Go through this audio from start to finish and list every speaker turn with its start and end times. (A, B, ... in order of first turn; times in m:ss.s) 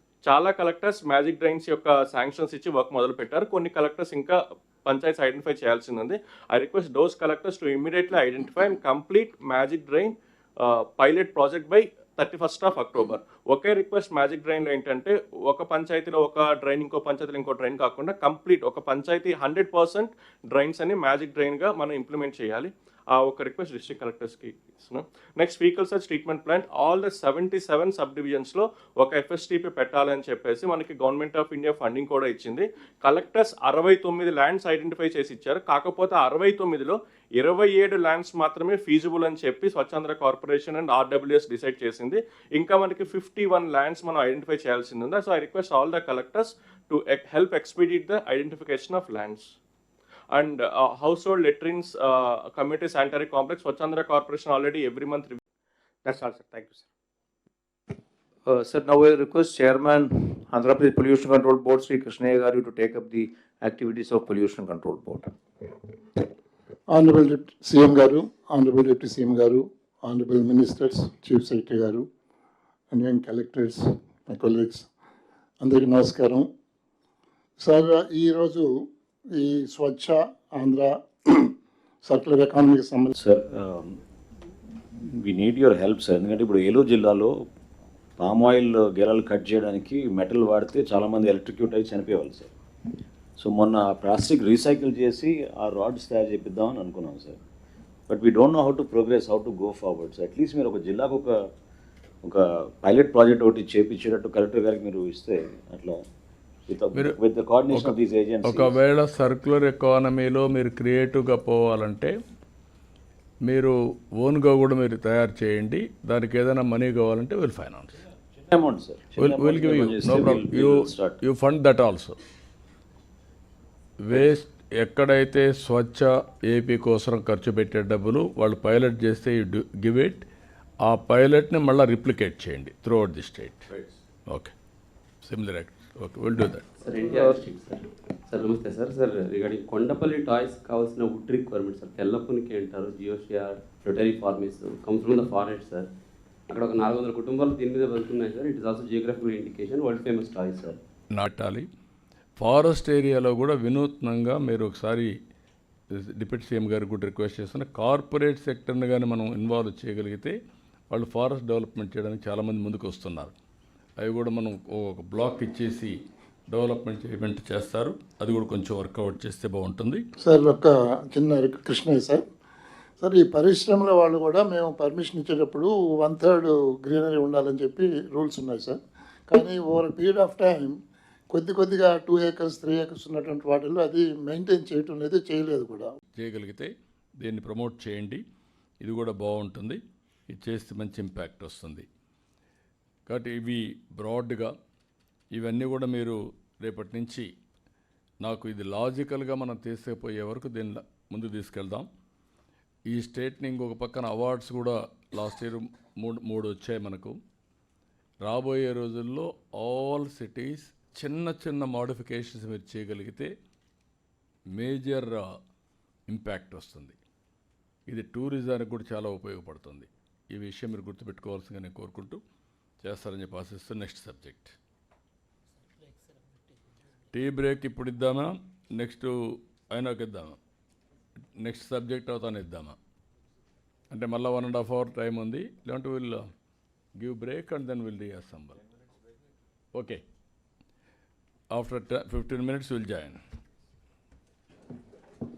0:00.3-0:49.5 A
0:50.3-0:55.4 A
0:56.0-0:56.9 B
0:58.4-1:05.8 B
1:06.9-1:12.1 C
1:12.9-1:14.9 C
1:15.6-1:16.5 C
1:17.6-1:18.7 C
1:19.4-1:23.1 C
1:23.2-1:24.0 D
1:24.8-1:27.4 D
1:28.2-1:32.5 D
1:33.4-1:37.4 D
1:38.1-1:41.4 D
1:42.2-1:46.0 D
1:46.7-1:48.8 D
1:47.7-1:52.1 E
1:53.5-1:58.0 E
1:58.3-2:01.2 D
1:59.2-2:02.2 E
2:04.0-2:10.2 E
2:04.1-2:04.4 D
2:10.8-2:13.7 E
2:14.3-2:14.5 E
2:15.2-2:16.6 E
2:16.8-2:25.9 F
2:26.5-2:30.8 F
2:31.1-2:31.7 E
2:32.4-2:35.1 E
2:36.0-2:40.4 E
2:40.9-2:43.4 E
2:44.0-2:46.0 E
2:46.5-2:50.0 E
2:50.2-2:52.2 C
2:53.0-3:00.8 C
3:01.3-3:05.9 C
3:06.2-3:08.2 E
3:08.8-3:11.9 E
3:13.1-3:14.5 E
3:15.3-3:17.3 E
3:18.2-3:21.9 E
3:22.9-3:27.2 E
3:28.2-3:33.3 E
3:34.6-3:35.3 E
3:36.1-3:37.0 E
3:37.9-3:42.2 E
3:42.8-3:44.5 E
3:47.1-3:50.4 E
3:51.4-3:52.8 E
3:53.9-3:56.2 E
3:57.0-3:58.6 E
3:59.7-4:00.0 E
4:01.5-4:03.2 E